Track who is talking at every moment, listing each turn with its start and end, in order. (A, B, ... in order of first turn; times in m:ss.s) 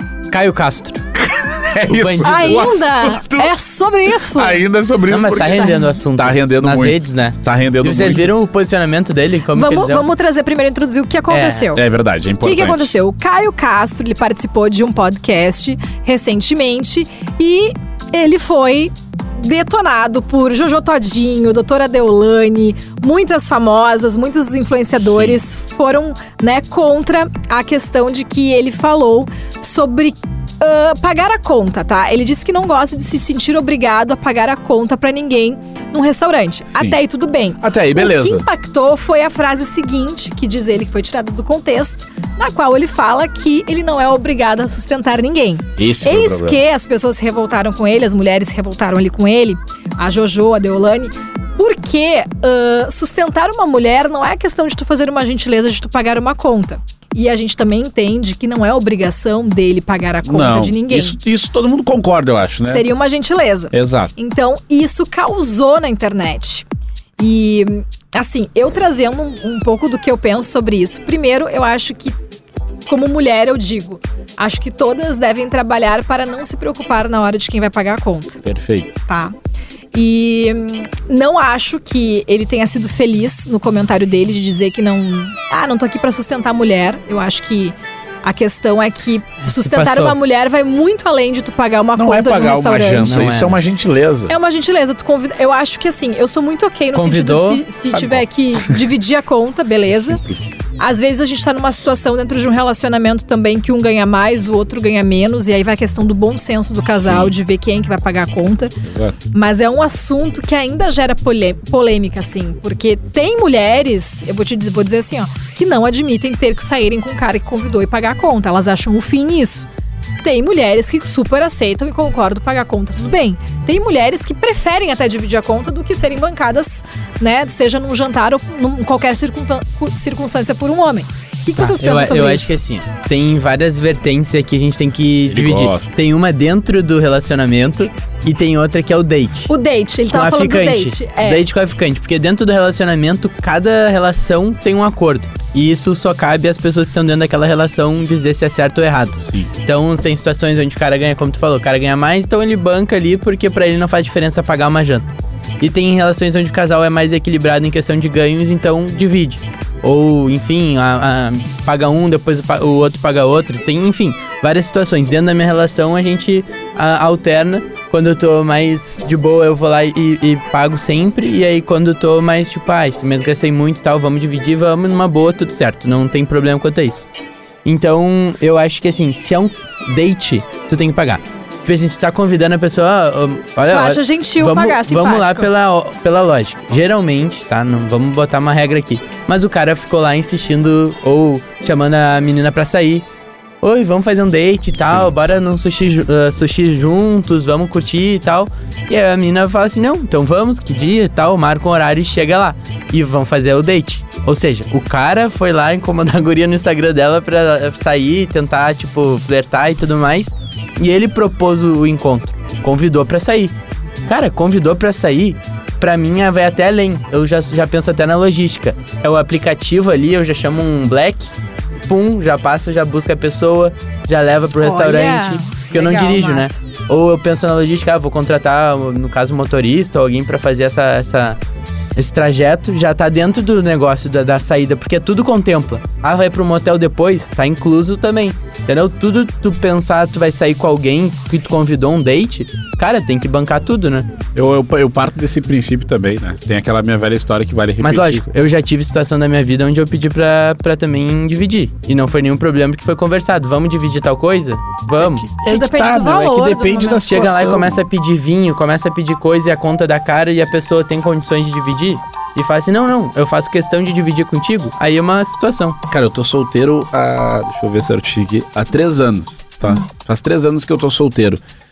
0:00.3-0:01.0 A
0:01.2-0:03.5 B
0:01.8-0:02.7 A
0:02.2-0:04.6 C
0:04.3-0:08.4 B
0:05.1-0:10.0 A
0:05.2-0:06.0 C
0:09.5-0:11.8 C
0:11.3-0:11.7 A
0:11.7-0:12.9 B
0:12.4-1:01.2 C
0:25.0-0:25.4 B
0:37.6-0:38.4 B
0:45.8-0:46.6 B
1:00.2-1:02.8 B
1:02.6-1:06.6 C
1:03.7-1:04.1 B
1:07.2-1:12.2 C
1:12.9-1:18.4 C
1:18.4-1:18.9 B
1:19.1-1:19.3 C
1:19.9-1:33.2 C
1:29.4-1:30.2 A
1:32.0-1:34.3 B
1:33.0-1:33.6 A
1:34.3-1:40.2 C
1:36.9-1:37.6 A
1:37.9-1:38.8 B
1:39.9-1:40.5 B
1:40.8-1:48.8 C
1:46.9-1:47.4 B
1:48.8-1:49.2 B
1:49.3-1:59.7 C
2:00.2-2:12.6 C
2:11.6-2:19.5 A
2:15.3-2:15.9 B
2:19.5-2:21.4 C
2:20.1-2:35.1 A
2:35.6-2:57.1 A
2:57.6-3:13.0 A
3:03.7-3:05.5 C
3:13.6-3:33.5 A
3:14.8-3:15.1 B
3:34.0-3:41.3 A
3:41.8-3:51.4 A
3:44.6-3:46.6 C
3:52.0-4:04.1 A
4:04.3-4:08.3 B
4:07.8-4:15.3 A
4:15.0-4:17.8 B
4:15.4-4:17.1 C
4:17.1-4:25.8 A
4:25.9-4:31.4 B